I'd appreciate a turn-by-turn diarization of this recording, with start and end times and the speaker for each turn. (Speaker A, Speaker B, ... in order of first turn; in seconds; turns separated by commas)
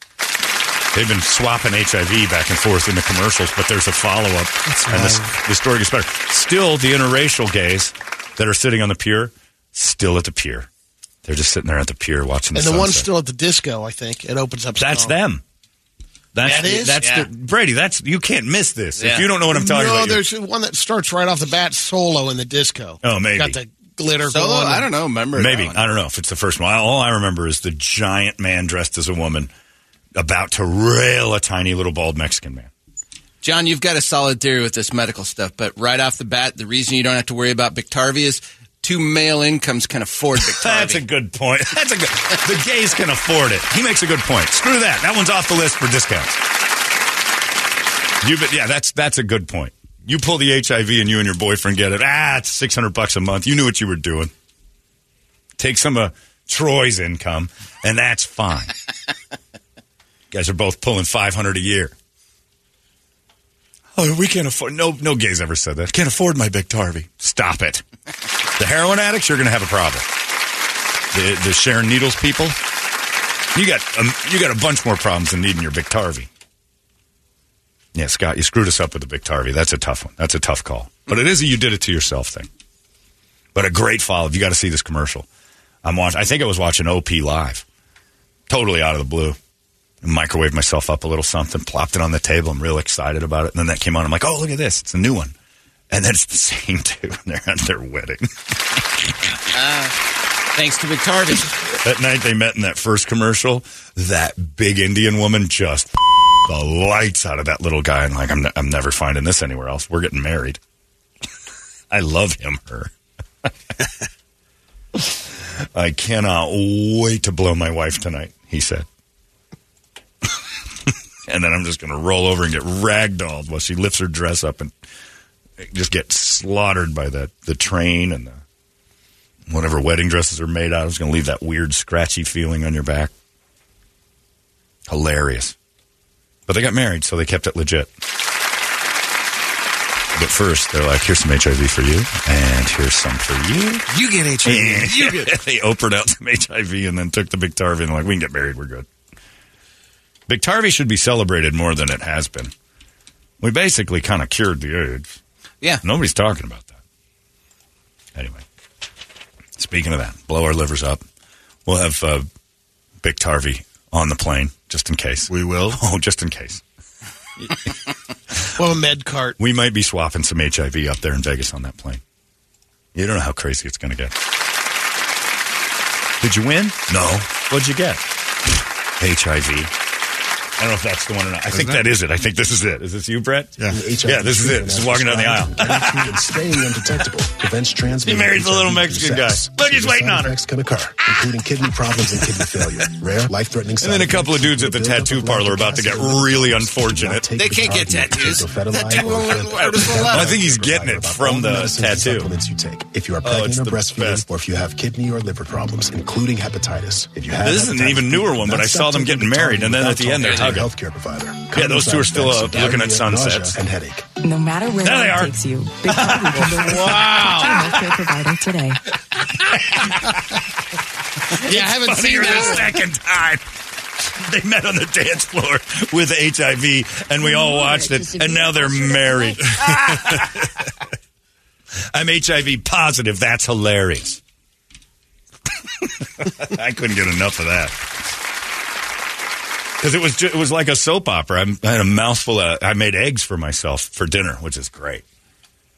Speaker A: 0.9-10.7, Speaker B: 4.7-5.2, Speaker A: 11.2-13.1, Speaker C: 12.5-15.2, Speaker A: 14.8-15.4, Speaker A: 16.3-20.2, Speaker C: 16.4-17.2, Speaker D: 17.0-17.3, Speaker D: 19.0-19.3, Speaker C: 19.5-24.9, Speaker A: 23.0-23.6, Speaker D: 24.2-25.8, Speaker A: 25.4-29.5, Speaker A: 30.1-32.7, Speaker D: 33.4-41.0, Speaker A: 40.4-46.4, Speaker A: 48.2-54.3, Speaker A: 55.6-58.7, Speaker A: 60.3-61.9, Speaker A: 63.9-67.8, Speaker A: 68.6-70.0, Speaker A: 71.1-72.6, Speaker A: 73.5-76.3, Speaker A: 77.9-82.5, Speaker A: 83.5-85.2, Speaker A: 85.8-87.6, Speaker A: 88.5-89.4, Speaker A: 90.0-95.3, Speaker A: 95.9-99.1, Speaker D: 99.5-100.0, Speaker D: 100.5-101.6, Speaker A: 101.8-110.6, Speaker A: 111.9-112.9, Speaker A: 114.9-118.8, Speaker A: 120.9-124.7, Speaker A: 125.6-128.4, Speaker A: 129.5-133.1, Speaker A: 134.9-135.5, Speaker A: 136.5-137.9, Speaker A: 140.1-143.8, Speaker B: 143.9-145.3, Speaker A: 144.4-148.9, Speaker A: 150.3-152.5, Speaker A: 153.4-155.2, Speaker A: 155.8-156.8, Speaker A: 158.1-158.4, Speaker A: 159.6-161.0, Speaker A: 161.7-162.3, Speaker A: 163.0-166.6, Speaker B: 165.3-165.8, Speaker C: 168.6-169.3, Speaker A: 169.4-172.0, Speaker A: 172.9-174.1, Speaker A: 176.2-178.0, Speaker A: 179.0-179.7, Speaker A: 180.6-186.3, Speaker B: 181.5-181.8, Speaker E: 183.7-214.1, Speaker A: 188.0-190.3, Speaker A: 193.8-197.3, Speaker D: 197.4-200.3, Speaker A: 199.6-202.3, Speaker A: 203.2-204.2, Speaker A: 207.4-210.7, Speaker D: 210.2-210.5, Speaker A: 211.5-213.6, Speaker F: 214.2-218.8, Speaker A: 214.8-218.1, Speaker C: 216.4-217.7, Speaker A: 219.4-220.2, Speaker A: 221.3-223.4, Speaker C: 221.4-222.8, Speaker A: 224.0-230.7, Speaker F: 227.3-229.4, Speaker A: 231.9-234.2, Speaker A: 235.8-237.8, Speaker A: 239.8-245.0